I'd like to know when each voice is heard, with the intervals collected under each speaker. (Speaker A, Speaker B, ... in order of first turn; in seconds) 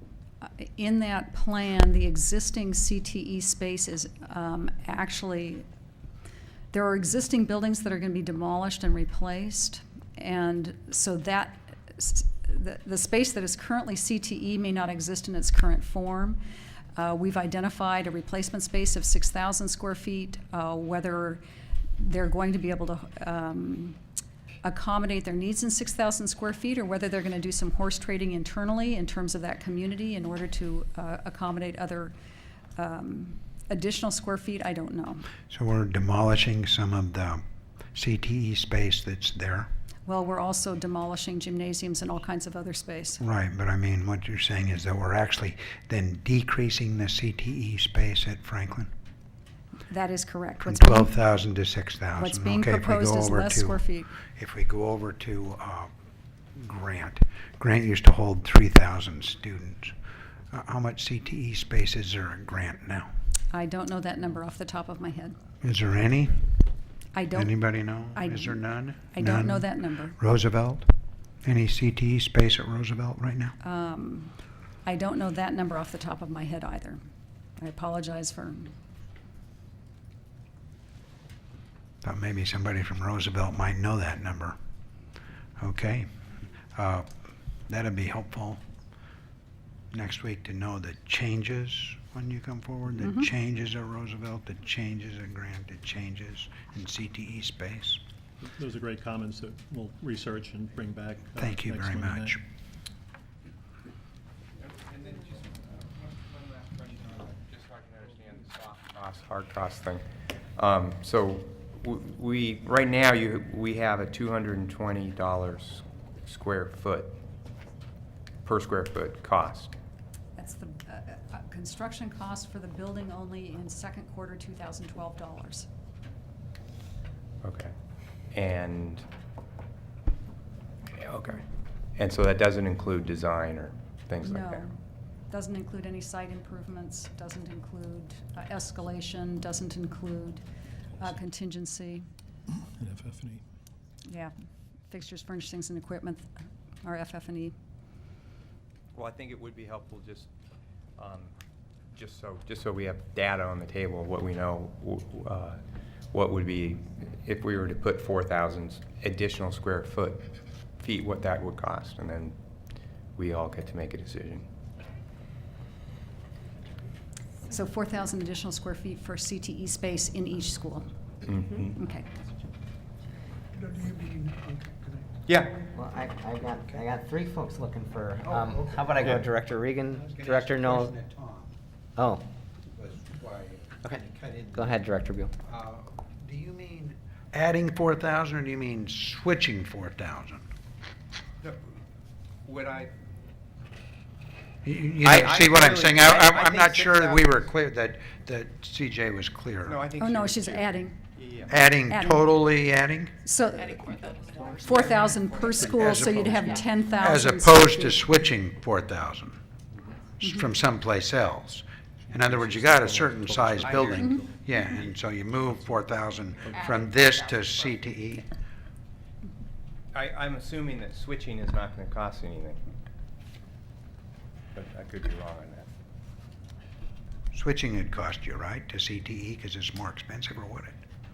Speaker A: 0.4-5.7, 6.7-16.4, 17.0-21.4, 22.0-24.0, 24.6-32.1, 32.8-35.3, 40.1-43.2, 49.9-51.1, 52.2-54.1, 63.5-65.4, 67.1-67.6, 68.1-70.2, 73.6-77.0, 77.6-78.7, 120.4-125.7, 134.2-134.7, 135.3-140.4, 141.0-142.1, 144.1-144.3, 144.9-146.3, 146.8-147.6, 167.5-170.9, 171.7-172.1, 200.0-201.0, 201.9-202.3, 203.2-208.0, 210.2-210.5
Speaker B: 35.5-37.4, 37.9-39.7, 43.2-48.9, 50.6-53.8, 54.4-55.9, 56.5-60.0, 60.5-63.1, 65.6-66.4, 67.3-70.9, 71.4-73.5, 82.0-84.5, 85.6-86.1, 86.8-87.1, 87.7-88.6, 89.9-98.0, 101.4-102.4, 173.6-175.1, 178.2-179.3, 179.9-181.5, 182.7-184.8, 185.4-190.5, 194.7-199.9, 201.5-203.1, 205.5-209.4, 210.2-218.3, 227.3-230.8
Speaker C: 98.4-102.4, 142.6-143.4
Speaker D: 104.6-110.0, 110.6-117.2, 118.4-119.7, 127.4-127.7, 128.3-129.1, 130.9-131.4, 132.0-134.7, 148.9-150.3, 151.0-151.3, 152.0-155.6, 156.1-162.3, 163.2-164.5, 171.2-171.7, 175.3-175.6, 192.4-192.9, 195.0-197.3, 199.6-201.6, 219.9-222.6, 224.5-225.7
Speaker E: 175.7-181.0, 182.0-182.2, 184.5-185.3, 212.2-214.3